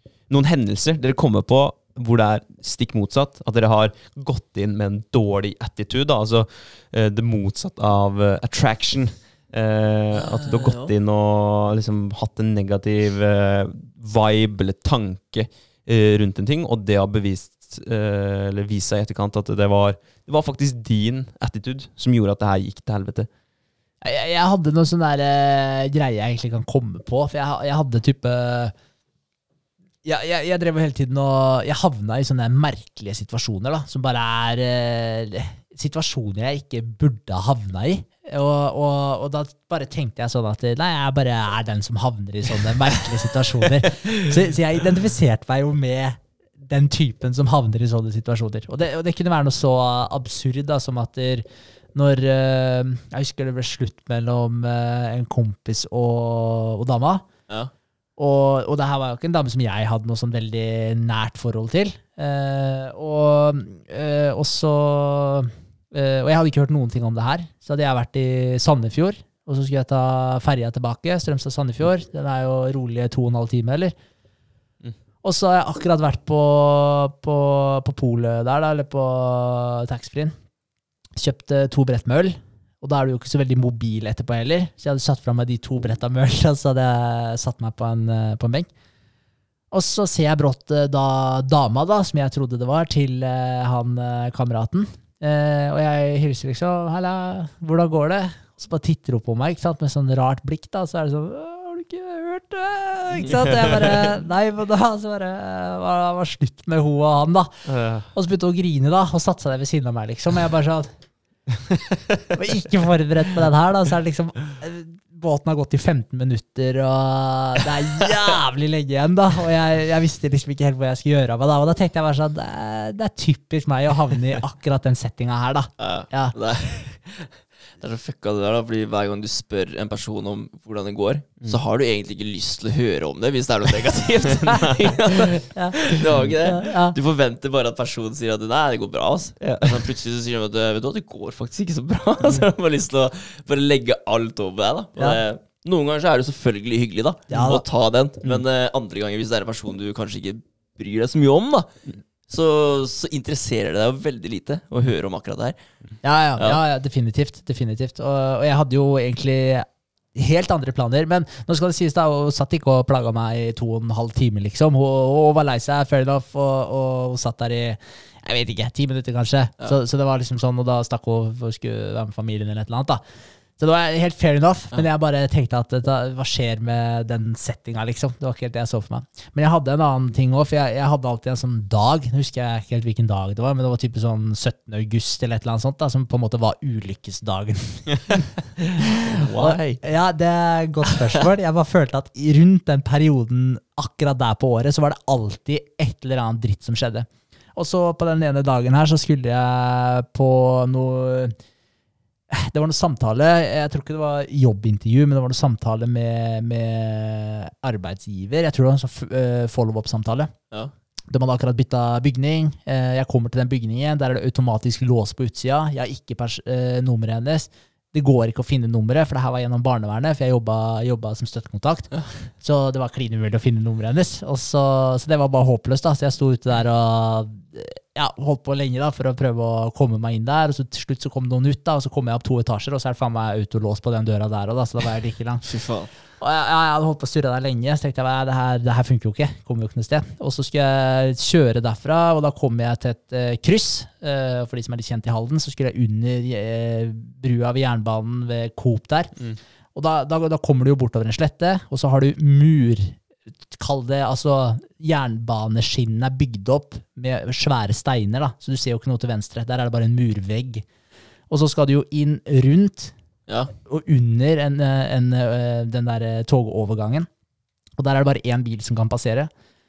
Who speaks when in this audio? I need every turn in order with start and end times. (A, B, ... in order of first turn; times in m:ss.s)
0:00.3-0:23.3 A
0:10.1-0:10.9 B
0:24.0-0:28.7 C
0:30.0-0:57.2 C
0:58.2-1:13.9 C
1:15.2-1:20.3 C
1:21.2-1:28.7 C
1:29.7-1:51.0 C
1:43.4-1:43.7 A
1:47.6-1:48.1 A
1:52.3-2:06.3 C
2:05.8-2:31.7 B
2:15.5-2:17.0 C
2:19.4-2:19.9 A
2:27.3-2:27.6 C
2:32.3-2:35.6 B
2:36.0-2:53.0 C
2:53.6-3:21.4 C
3:09.2-3:09.8 A
3:22.3-3:30.3 C
3:31.1-3:55.5 C
3:55.4-3:55.9 B
3:56.2-4:09.2 C
4:09.7-4:20.6 C
4:21.3-4:22.9 C
4:23.3-4:23.5 B
4:23.6-4:27.1 C
4:27.8-4:29.3 C